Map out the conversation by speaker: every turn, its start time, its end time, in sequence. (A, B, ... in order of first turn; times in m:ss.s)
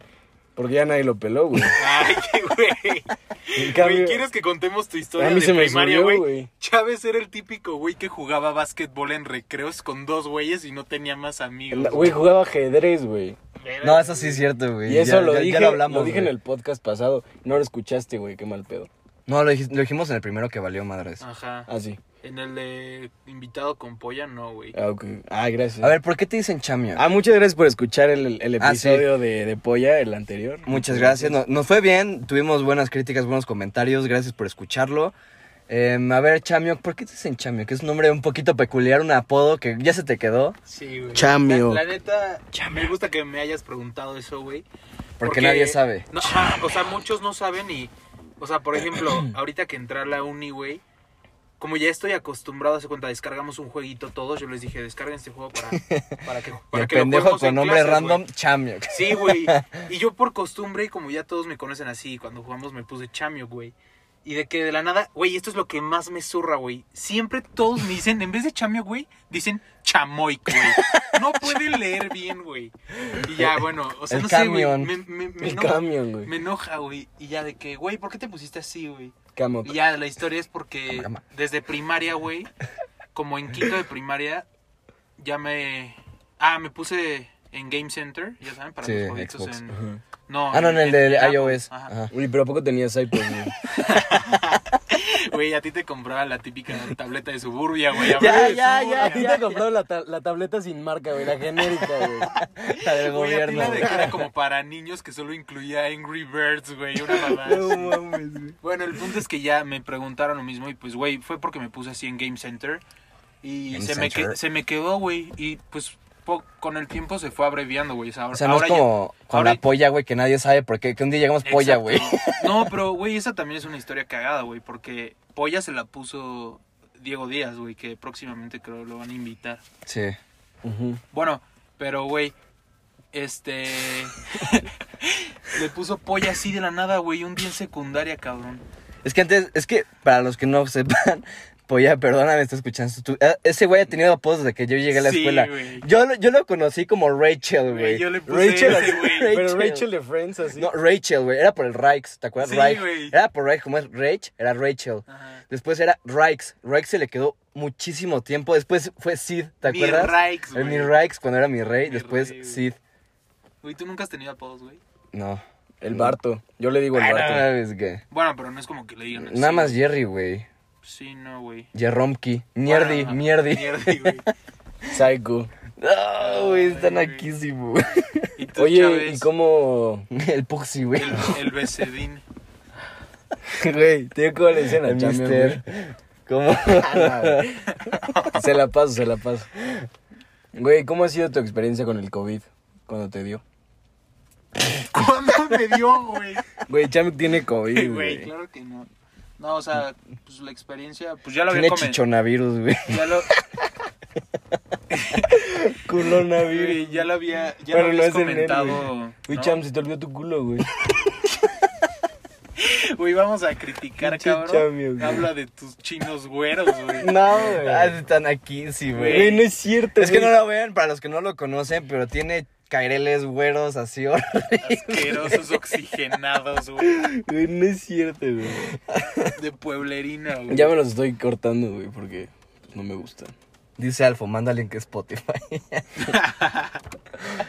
0:00.6-0:01.8 A
0:01.8-0:12.2 B
0:03.6-0:04.2 A
0:05.2-0:06.5 A
0:11.7-0:13.4 A
0:13.6-0:14.4 B
0:13.8-0:16.3 C
0:14.8-0:18.9 A
0:19.3-0:21.2 C
0:21.2-0:21.7 B
0:21.7-0:22.0 A
0:22.2-0:24.8 B
0:24.8-0:26.0 A
0:25.8-0:27.0 C
0:27.0-0:31.4 A
0:28.6-0:29.1 C
0:30.7-0:35.2 C
0:35.7-0:40.6 C
0:40.7-0:44.7 B
0:41.2-0:41.8 A
0:42.5-0:42.9 C
0:45.2-0:46.6 C
0:45.2-0:50.8 B
0:51.6-0:58.2 B
0:55.8-0:56.2 C
0:56.7-0:59.8 C
0:58.9-1:22.5 B
1:14.1-1:14.9 C
1:15.4-1:16.3 A
1:19.4-1:19.8 A
1:20.9-1:21.2 C
1:23.1-1:24.4 B
1:25.2-1:29.8 B
1:28.8-1:29.6 C
1:29.7-1:30.0 A
1:30.3-1:31.9 B
1:30.5-1:32.1 C
1:32.1-1:33.6 A
1:33.7-1:39.4 B
1:38.1-1:39.6 C
1:38.2-1:42.4 A
1:42.4-1:44.2 C
1:42.7-1:47.9 B
1:43.6-1:44.1 A
1:47.3-1:48.6 A
1:48.6-1:52.8 B
1:53.4-1:59.6 B
1:53.7-1:54.4 C
1:58.3-2:02.7 C
2:01.4-2:09.6 B
2:09.8-2:10.2 C
2:10.6-2:11.0 A
2:11.1-2:12.4 B
2:13.1-2:18.6 B
2:19.0-2:29.9 C
2:24.9-2:25.9 B
2:27.6-2:29.4 B
2:28.3-2:30.7 A
2:30.5-2:42.8 C
2:32.4-2:33.2 B
2:35.1-2:35.4 B
2:39.6-2:41.0 B
2:41.9-2:42.7 B
2:43.6-2:44.8 B
2:45.1-2:46.2 C
2:45.8-2:47.5 A
2:46.9-2:48.0 C
2:48.1-2:49.8 B
2:49.2-2:50.5 C
2:50.8-2:51.7 B
2:51.7-2:54.3 C
2:52.6-2:54.3 B
2:54.9-2:55.5 A
2:55.8-2:58.3 C
2:56.2-2:57.3 B
2:58.4-2:59.3 B
2:58.6-3:00.1 A
3:00.1-3:01.4 C
3:01.0-3:02.2 B
3:03.5-3:05.6 A
3:04.8-3:07.6 C
3:06.8-3:07.5 A
3:07.7-3:08.4 B
3:08.4-3:09.5 A
3:10.5-3:13.4 A
3:14.9-3:16.5 B
3:16.7-3:18.3 A
3:17.7-3:22.0 B
3:21.5-3:23.2 C
3:22.9-3:23.3 B
3:24.9-3:25.4 B
3:25.4-3:27.1 A
3:26.4-3:29.6 B
3:27.7-3:30.7 A
3:32.6-3:37.5 B
3:34.0-3:35.3 A
3:37.0-3:37.9 A
3:37.4-3:39.4 C
3:38.9-3:39.4 B
3:39.0-3:40.3 A
3:40.0-3:45.7 C
3:44.6-3:47.0 B
3:46.8-3:48.7 A
3:48.9-3:49.3 C
3:49.3-3:50.8 B
3:50.5-3:53.3 A
3:53.8-3:56.1 C
3:56.1-3:56.8 B